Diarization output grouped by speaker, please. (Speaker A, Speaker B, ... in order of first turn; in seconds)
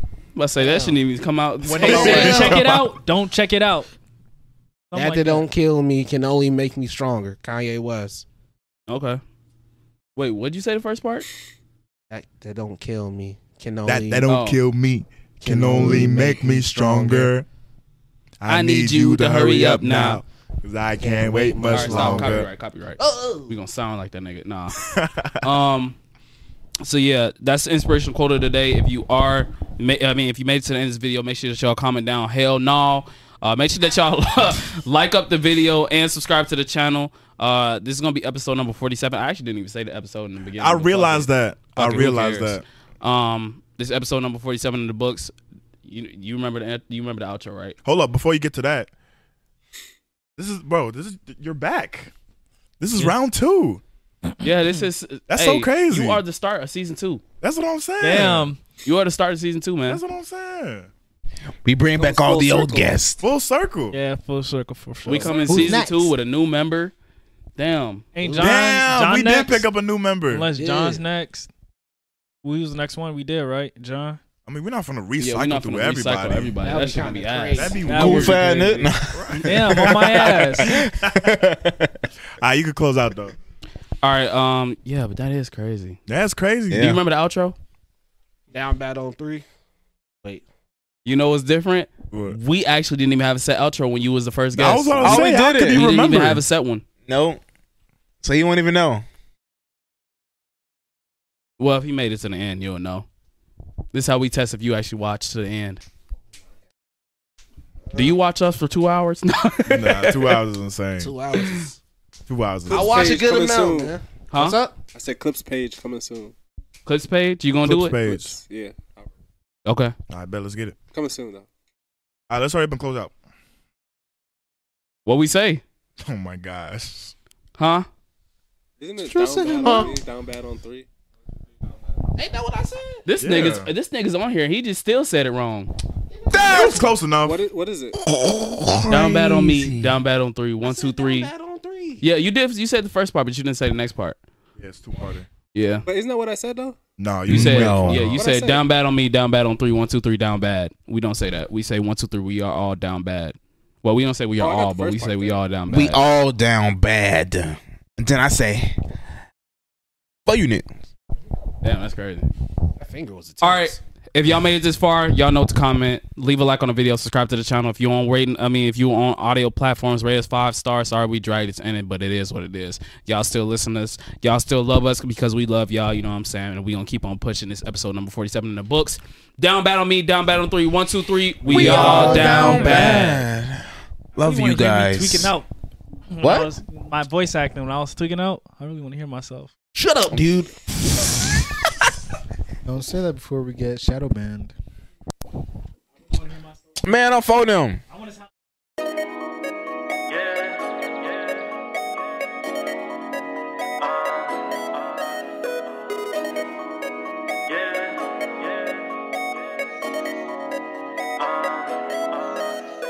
Speaker A: 0.3-2.6, 8.9-9.2, 10.2-11.3, 14.2-14.6, 18.4-20.2, 21.6-24.8, 25.4-25.9, 26.8-45.3, 45.8-47.8, 54.4-57.2, 58.8-60.0, 65.0-66.9, 67.6-68.1, 75.2-78.2, 84.0-86.0, 86.7-87.5, 91.0-96.8, 101.6-103.0, 103.9-105.8, 107.9-110.4, 114.3-114.6, 116.8-118.0, 119.6-119.9, 125.0-125.6, 127.6-127.9, 133.0-135.7, 138.9-141.3, 142.0-144.2, 145.5-145.8, 147.3-156.1, 161.6-162.3, 163.4-183.2
Speaker B: 0.6-1.0, 1.8-2.6, 4.9-8.2, 12.1-14.3, 15.4-17.4, 20.9-22.4, 23.0-23.6, 68.2-68.6, 70.5-71.0, 76.6-78.0, 88.5-89.4, 111.0-111.8, 112.7-114.7, 132.2-133.0, 140.6-142.0, 162.8-163.8, 189.7-190.5
Speaker C: 1.7-3.9, 4.9-5.4, 58.0-58.6, 63.9-65.8, 68.2-69.7, 70.3-71.5, 72.4-74.2, 77.8-80.7, 181.4-183.2, 184.2-185.5, 186.1-189.5, 196.1-196.5, 197.9-198.2, 200.1-200.5, 201.1-201.4, 203.8-205.0, 207.5-208.8, 211.2-212.4
Speaker D: 2.0-2.9, 13.8-17.4, 18.4-22.5, 24.8-25.5, 40.6-42.6, 47.8-48.9, 50.4-52.1, 52.8-53.8, 55.3-56.2, 57.4-58.5, 59.9-60.9, 63.2-64.0, 68.4-70.5, 74.5-76.6, 77.5-79.9, 80.6-81.3, 82.4-83.3, 86.1-86.9, 92.1-92.4, 94.5-96.4, 109.7-111.1, 112.3-113.2, 117.6-118.4, 120.1-120.7, 122.3-123.1, 126.0-127.1, 133.2-133.7, 136.3-137.4, 144.6-145.3, 147.0-148.2
Speaker E: 61.6-63.2, 77.9-82.0, 86.7-87.0, 95.0-95.9, 97.1-97.4, 98.2-99.0, 136.3-136.8, 138.0-139.9, 147.3-148.1, 155.7-158.7, 160.2-160.7, 181.4-183.6, 184.2-185.3, 186.2-186.5, 190.1-190.5, 196.8-197.8
Speaker F: 61.9-63.0, 112.7-113.9, 114.9-116.3, 118.0-119.1, 120.9-121.5, 128.8-130.8, 137.2-138.0, 145.8-146.8, 148.2-148.6, 154.4-155.4
Speaker G: 65.3-66.1, 129.0-129.9, 192.7-194.5